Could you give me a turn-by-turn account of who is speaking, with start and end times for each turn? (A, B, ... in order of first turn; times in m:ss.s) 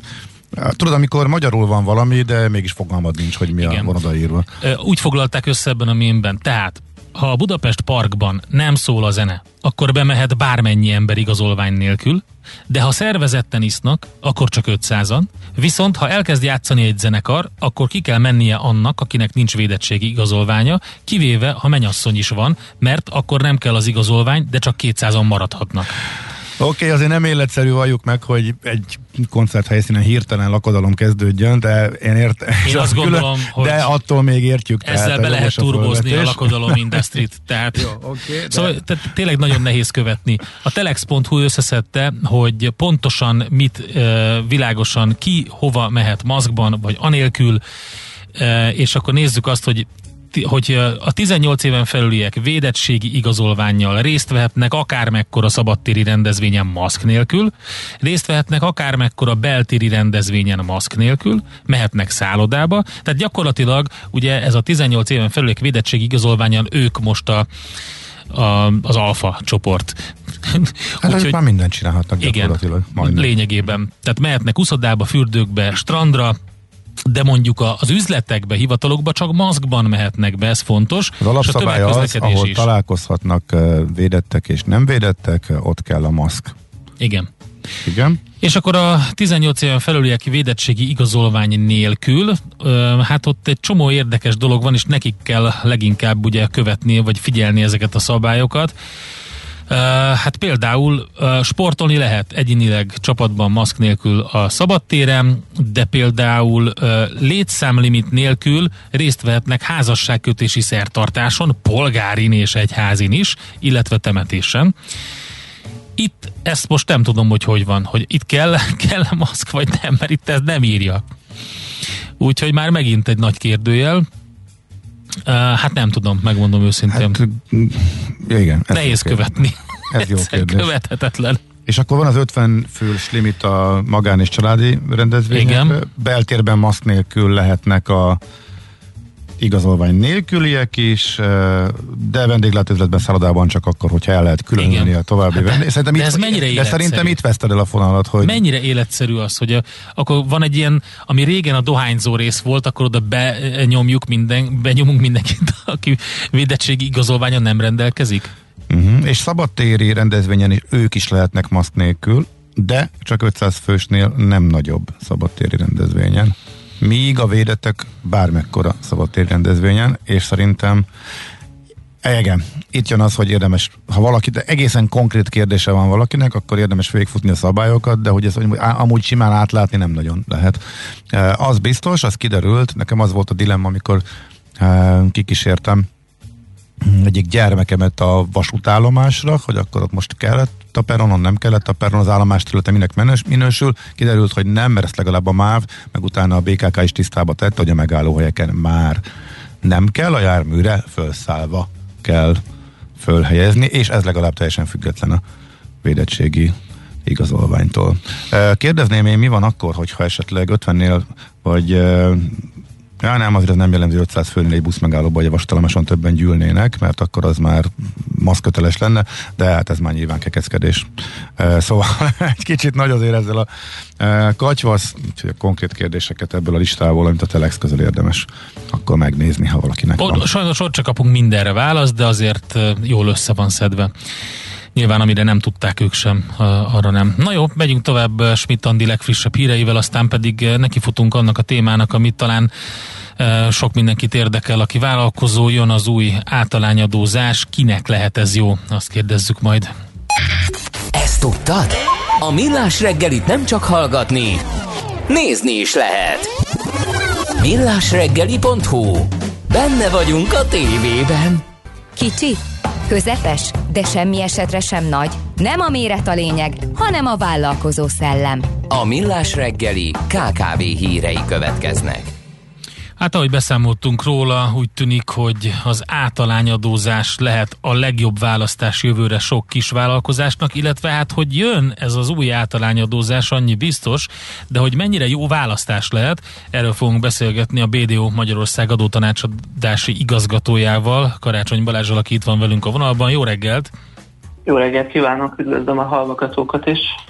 0:00.5-0:04.5 A
0:03.6-0:03.9 B
0:04.6-0:26.0 B
0:26.6-0:37.0 A
0:32.6-0:33.9 B
0:34.8-0:37.9 B
0:37.7-0:38.8 A
0:38.5-0:47.6 B
0:48.4-1:07.5 B
1:08.3-1:11.4 B
1:11.0-1:13.3 A
1:12.2-1:16.4 B
1:17.0-1:22.7 B
1:21.2-1:26.5 A
1:27.0-1:27.3 B
1:27.8-1:28.2 A
1:28.4-1:38.7 B
1:39.7-1:54.7 B
1:56.0-2:01.0 B
2:02.2-2:04.0 B
2:05.2-2:07.2 B
2:06.9-2:10.7 A
2:08.7-2:11.4 B
2:11.6-2:18.2 A
2:15.3-2:15.8 B
2:19.4-2:28.4 A
2:24.6-2:27.2 B
2:28.2-2:38.3 B
2:38.7-2:50.9 A
2:52.0-3:04.0 A
3:04.6-3:05.9 A
3:06.8-3:19.0 A
3:19.6-3:22.4 A
3:23.0-3:25.2 A
3:25.8-3:32.5 A
3:33.0-3:43.5 A
3:44.0-3:50.2 A
3:50.0-3:53.9 B
3:54.7-4:02.5 B
4:03.2-4:09.7 B
4:10.9-4:14.4 C
4:15.1-4:16.3 C
4:17.4-4:21.4 C
4:22.0-4:28.5 D
4:28.7-4:32.1 C
4:33.0-4:53.7 B
4:54.4-4:56.9 E